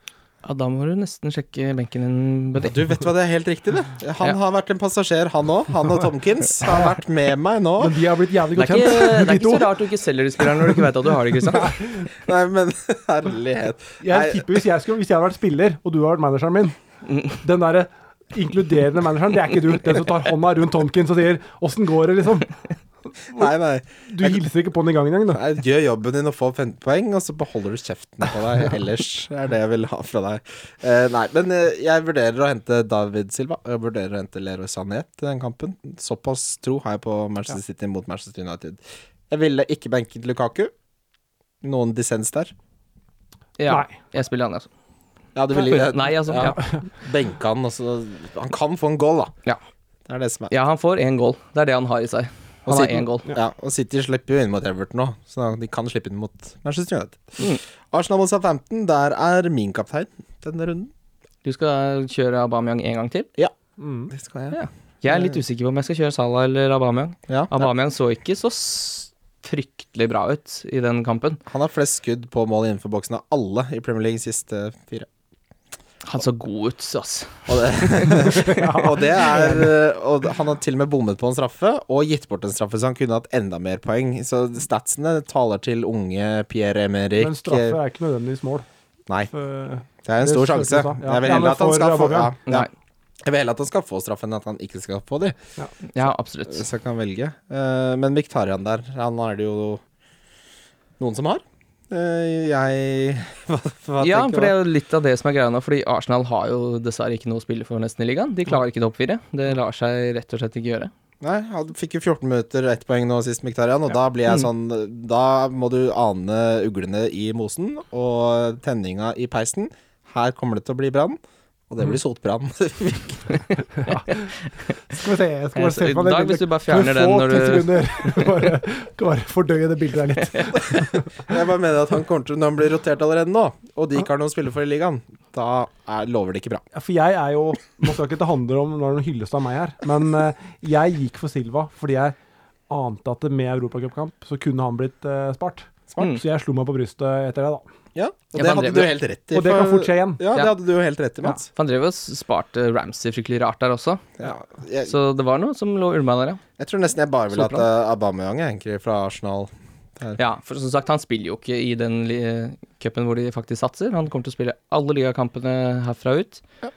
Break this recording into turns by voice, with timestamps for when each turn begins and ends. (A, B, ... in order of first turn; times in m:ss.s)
0:00.4-0:02.9 A
0:02.6-0:08.0 B
0:06.7-0:06.9 C
0:07.8-0:09.8 C
0:08.6-0:11.8 A
0:12.1-0:14.5 B
0:14.0-0:16.7 C
0:17.3-0:22.5 C
0:23.3-0:24.4 B
0:24.1-0:25.4 C
0:25.3-0:40.7 B
0:41.6-0:42.5 B
0:43.6-0:44.7 A
0:43.7-0:43.9 C
0:45.3-0:49.3 B
0:45.6-0:46.6 A
0:46.4-0:46.8 C
0:50.1-0:50.5 B
0:50.5-0:53.3 A
0:52.6-1:00.9 B
1:01.4-1:03.3 A
1:03.8-1:04.1 C
1:04.1-1:05.4 B
1:04.5-1:11.4 A
1:07.3-1:07.7 B
1:11.4-1:15.1 B
1:16.0-1:18.3 A
1:17.5-1:27.8 B
1:18.2-1:19.7 C
1:27.2-1:28.6 C
1:29.3-1:32.4 C
1:30.0-1:32.7 B
1:33.2-1:35.4 B
1:35.9-1:36.6 A
1:36.0-1:39.8 B
1:41.0-1:44.6 B
1:44.0-1:50.9 A
1:51.2-2:01.2 B
2:01.7-2:03.4 B
2:03.8-2:04.3 C
2:03.8-2:04.3 A
2:04.9-2:11.1 C
2:05.6-2:08.4 A
2:11.2-2:16.6 B
2:16.7-2:22.2 C
2:22.7-2:27.7 C
2:27.9-2:31.5 B
2:28.3-2:29.0 A
2:29.3-2:30.2 C
2:31.5-2:34.1 A
2:34.2-2:34.9 B
2:34.8-2:36.4 A
2:36.6-2:40.2 B
2:37.3-2:37.6 A
2:40.2-2:46.4 A